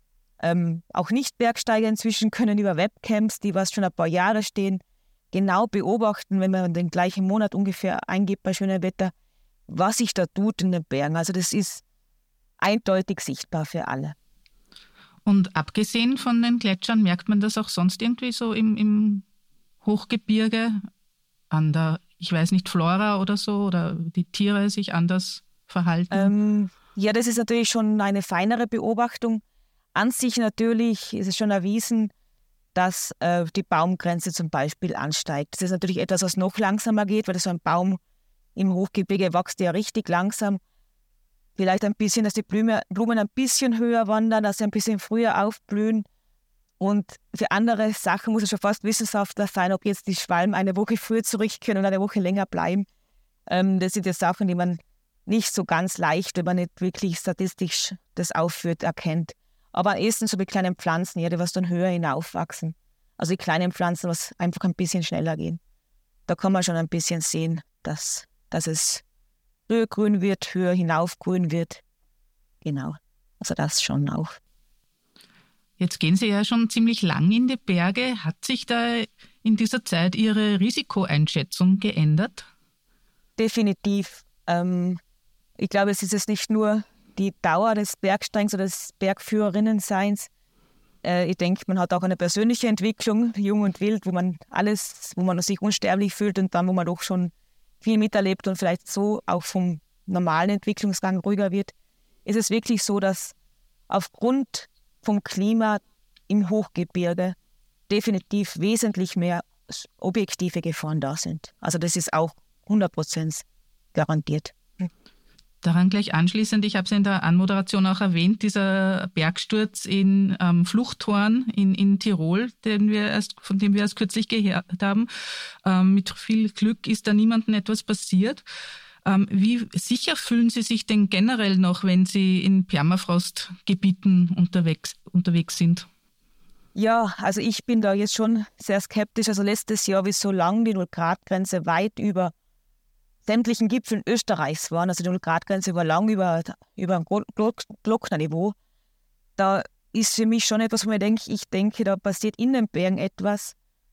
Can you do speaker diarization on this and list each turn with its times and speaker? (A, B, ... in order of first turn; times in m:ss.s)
0:00.4-0:04.8 A
0:05.3-0:09.1 A
0:09.7-0:11.8 A
0:12.6-0:14.1 A
0:15.2-0:19.2 B
0:19.8-0:20.8 B
0:21.5-0:26.3 B
0:26.1-0:29.4 A
0:29.9-0:32.1 A
0:32.7-0:38.0 A
0:38.6-0:40.6 A
0:41.6-0:46.0 A
0:46.8-0:52.8 A
0:53.5-1:05.6 A
1:06.3-1:09.0 A
1:09.7-1:11.8 A
1:12.6-1:14.4 A
1:15.8-1:22.5 B
1:23.4-1:25.0 A
1:25.6-1:30.3 A
1:31.0-1:41.7 A
1:42.2-1:43.3 A
1:43.9-1:47.4 A
1:47.9-1:54.9 A
1:55.6-2:05.1 B
2:05.6-2:08.4 B
2:09.0-2:15.9 B
2:16.7-2:22.3 A
2:23.2-2:28.5 A
2:29.4-2:33.5 A